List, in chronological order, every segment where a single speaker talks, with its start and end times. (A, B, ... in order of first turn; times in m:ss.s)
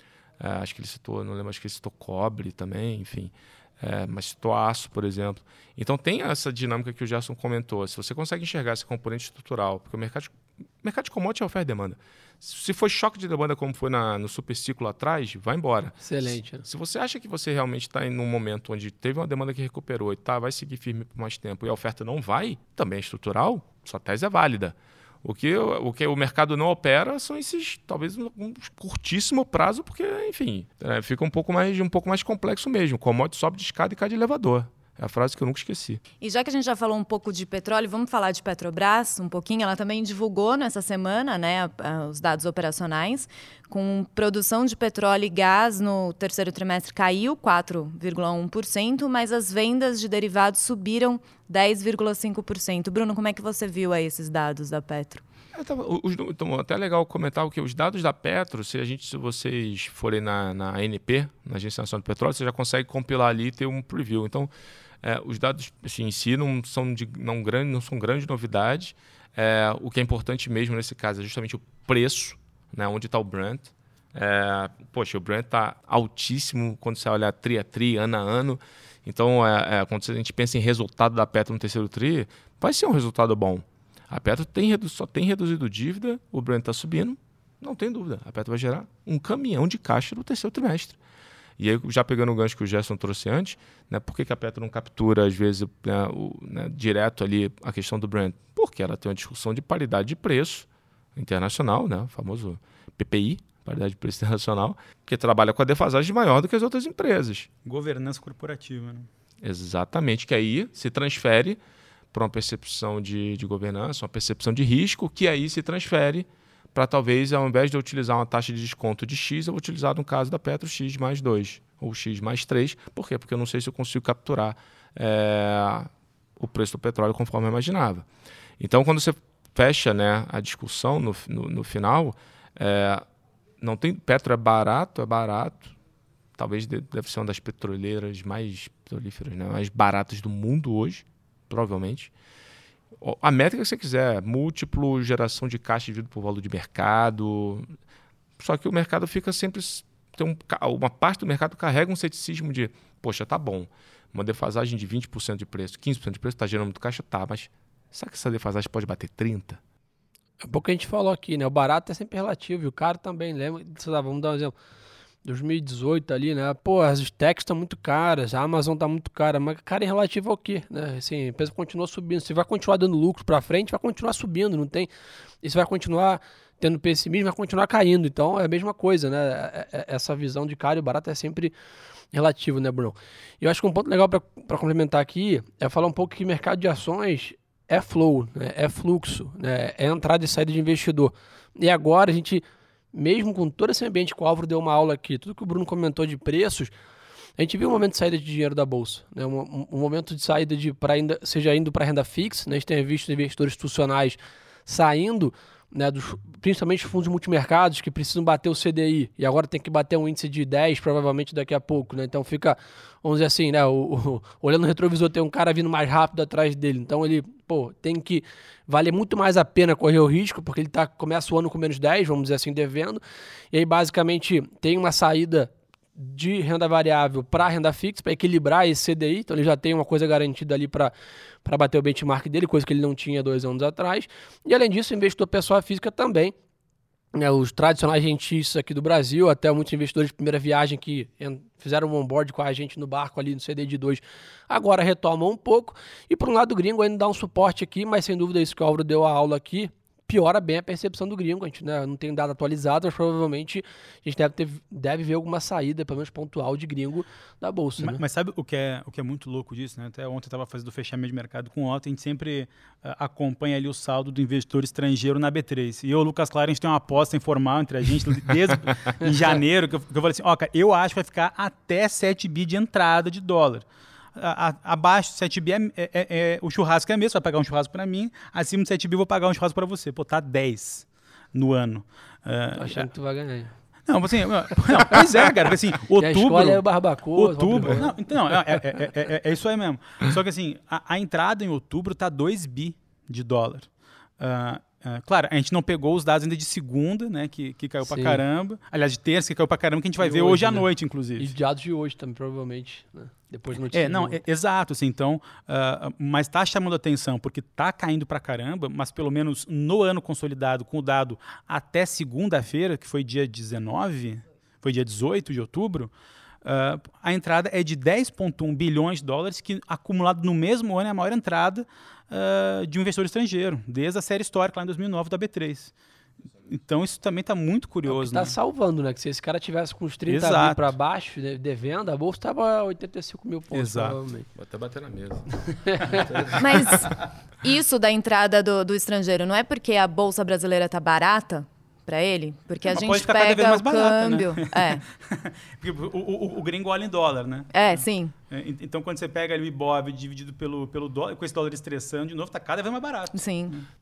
0:00.4-0:36.0 A
0:16.0-0:16.6 B
0:36.2-0:55.2 C
0:55.5-1:04.5 A
1:05.0-1:31.0 A
1:31.6-1:47.5 A
1:47.6-1:49.1 D
1:49.4-1:51.6 A
1:52.1-2:08.0 A
2:08.6-2:13.0 A
2:13.6-2:15.7 A
2:16.4-2:22.1 A
2:23.0-2:27.7 A
2:28.4-2:39.6 A
2:40.4-2:44.5 B
2:45.2-2:54.9 B
2:55.4-3:01.5 B
3:02.1-3:12.4 B
3:12.9-3:16.7 B
3:17.4-3:43.0 B
3:43.5-3:50.9 B
3:51.4-3:56.3 B
3:57.1-4:18.0 B
4:17.8-4:42.9 D
4:42.6-4:43.6 B
4:43.9-4:46.6 D
4:46.0-4:48.6 B
4:47.1-5:01.3 D
4:57.9-4:58.2 B
5:00.0-5:04.2 B
5:03.7-5:15.9 D
5:16.4-5:25.7 D
5:26.5-5:28.3 D
5:27.9-5:34.3 B
5:30.1-5:30.7 D
5:33.5-5:34.0 D
5:34.3-5:36.7 A
5:35.7-5:36.0 B
5:36.4-5:44.8 C
5:42.7-5:47.6 D
5:47.5-5:48.1 C
5:48.3-5:53.6 D
5:53.1-5:53.6 C